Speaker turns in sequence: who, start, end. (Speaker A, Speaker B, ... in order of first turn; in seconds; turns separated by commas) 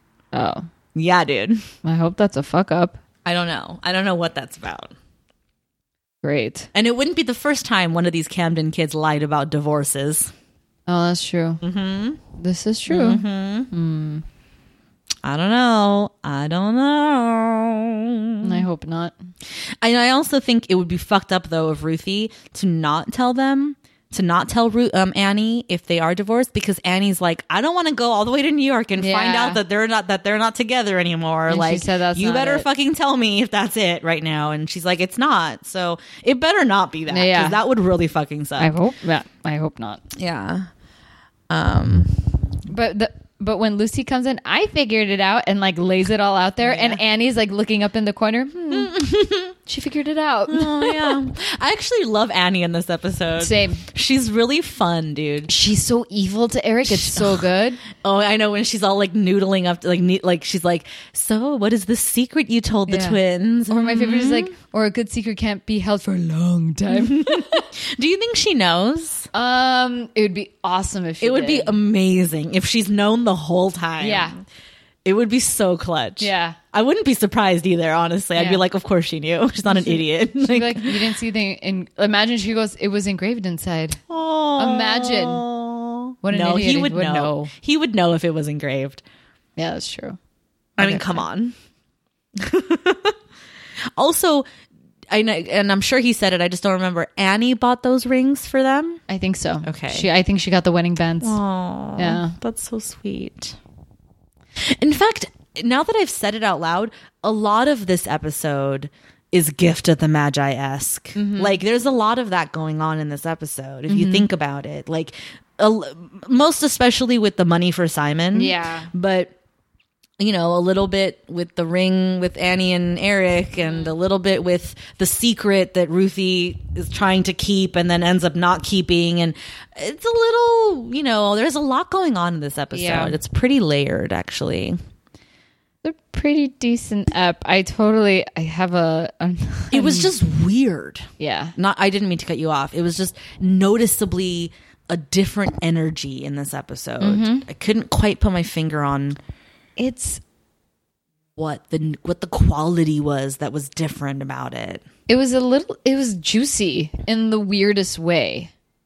Speaker A: 0.3-0.7, Speaker B: 0.9-1.6, Speaker A: 1.8-3.0, Speaker B: 3.2-4.9, Speaker A: 6.2-6.7, Speaker B: 6.7-10.3, Speaker A: 10.9-11.6, Speaker B: 11.6-12.2, Speaker A: 12.4-14.2, Speaker B: 12.9-13.7, Speaker B: 15.2-18.6, Speaker A: 18.4-19.1, Speaker B: 19.8-38.7, Speaker A: 29.0-29.6, Speaker A: 31.5-32.6, Speaker A: 37.1-37.6, Speaker A: 38.6-40.0, Speaker B: 40.1-40.7, Speaker B: 41.5-42.3, Speaker A: 42.7-48.9, Speaker B: 46.6-47.0, Speaker B: 48.7-49.5, Speaker A: 49.6-51.2, Speaker B: 50.5-55.5, Speaker A: 53.4-53.8, Speaker A: 55.5-57.8, Speaker B: 56.9-64.5, Speaker A: 62.9-63.2, Speaker A: 63.7-67.7, Speaker B: 66.9-69.3, Speaker A: 69.3-71.7, Speaker B: 71.2-74.4, Speaker A: 74.0-74.3, Speaker B: 75.0-81.1, Speaker A: 76.2-76.6, Speaker A: 78.3-78.6, Speaker A: 79.7-84.0, Speaker B: 84.1-89.0, Speaker A: 84.6-85.4, Speaker A: 86.2-87.5, Speaker A: 89.6-90.2, Speaker A: 90.8-91.2, Speaker B: 90.8-91.5, Speaker B: 92.4-93.1, Speaker B: 94.0-94.5, Speaker B: 95.1-99.0, Speaker A: 99.1-101.4, Speaker B: 99.6-100.1, Speaker B: 101.2-103.6, Speaker A: 102.0-102.3, Speaker B: 104.6-119.3, Speaker A: 111.1-111.6, Speaker A: 113.9-114.3, Speaker A: 118.3-118.9, Speaker B: 120.2-134.8, Speaker A: 132.7-133.2, Speaker A: 135.8-140.1, Speaker B: 139.7-149.2, Speaker A: 141.2-141.5, Speaker A: 147.0-147.5, Speaker A: 149.8-150.2, Speaker B: 151.3-154.8, Speaker A: 155.1-158.5